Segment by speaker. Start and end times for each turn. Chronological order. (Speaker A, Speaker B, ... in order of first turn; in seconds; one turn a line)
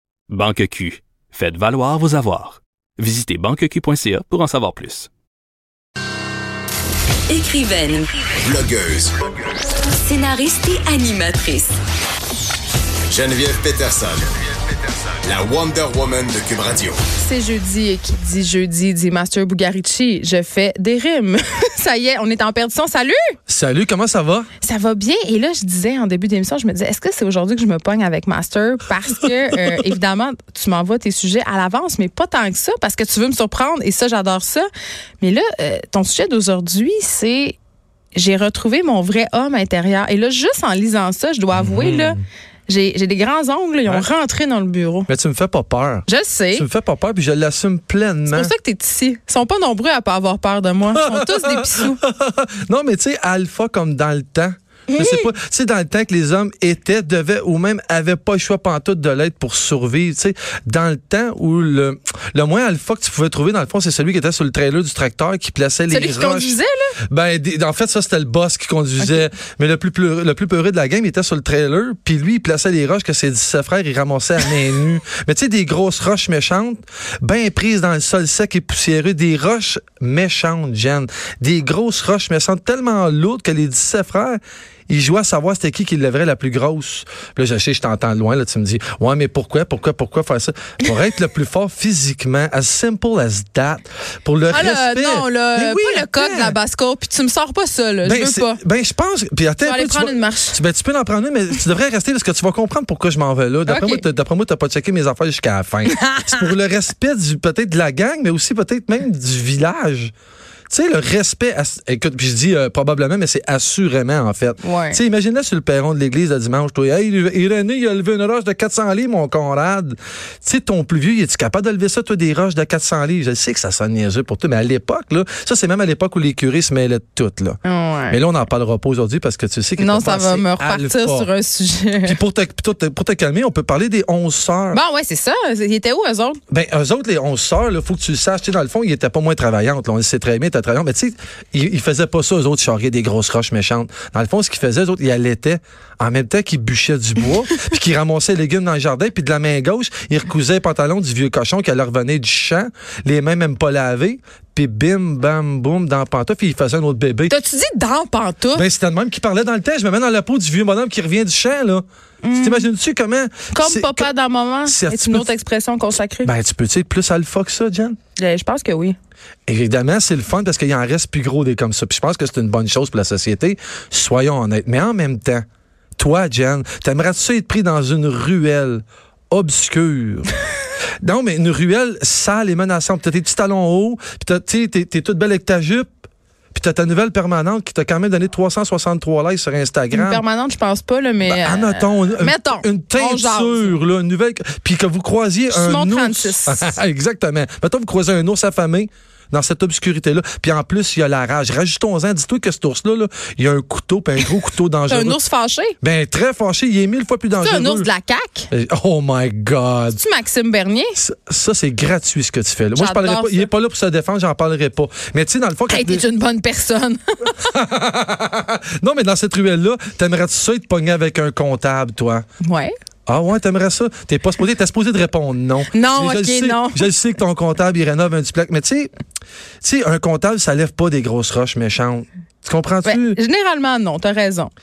Speaker A: 0.3-5.1
Speaker B: 7.3-8.2
Speaker C: 8.4-9.2
Speaker B: 9.9-11.8
Speaker C: 13.1-14.3
Speaker C: 15.1-17.0
Speaker D: 17.2-23.3
Speaker E: 23.5-24.5
Speaker D: 24.6-34.7
Speaker D: 35.2-37.6
Speaker D: 38.1-45.1
Speaker E: 41.5-42.2
Speaker E: 45.1-48.5
Speaker D: 46.1-46.6
Speaker D: 48.3-52.0
Speaker E: 50.9-66.6
Speaker D: 54.9-55.3
Speaker D: 65.9-67.0
Speaker E: 67.1-96.6
Speaker D: 69.0-69.2
Speaker D: 94.5-98.6
Speaker E: 98.0-110.1
Speaker D: 99.6-100.6
Speaker D: 103.7-104.0
Speaker D: 105.8-106.4
Speaker E: 110.7-127.6
Speaker D: 114.6-115.0
Speaker D: 127.6-128.2
Speaker E: 128.1-131.3
Speaker D: 129.8-132.2
Speaker E: 132.0-134.8
Speaker D: 134.7-136.4
Speaker E: 136.5-157.3
Speaker D: 157.3-158.7
Speaker E: 158.5-164.1
Speaker D: 162.2-162.7
Speaker D: 163.5-166.3
Speaker E: 164.7-165.3
Speaker E: 166.2-168.0
Speaker D: 168.2-168.9
Speaker E: 169.5-175.4
Speaker E: 176.0-180.3
Speaker E: 181.0-185.9
Speaker E: 186.5-190.2
Speaker D: 189.9-193.8
Speaker E: 191.2-205.2
Speaker D: 195.5-196.8
Speaker D: 204.9-205.8
Speaker E: 205.8-207.9
Speaker D: 207.4-208.5
Speaker E: 208.5-210.0
Speaker D: 210.0-210.9
Speaker E: 210.9-216.1
Speaker D: 212.7-213.5
Speaker D: 215.7-217.4
Speaker E: 217.3-222.2
Speaker D: 222.4-222.7
Speaker E: 223.1-228.9
Speaker D: 225.7-226.9
Speaker E: 229.6-233.2
Speaker D: 232.8-234.5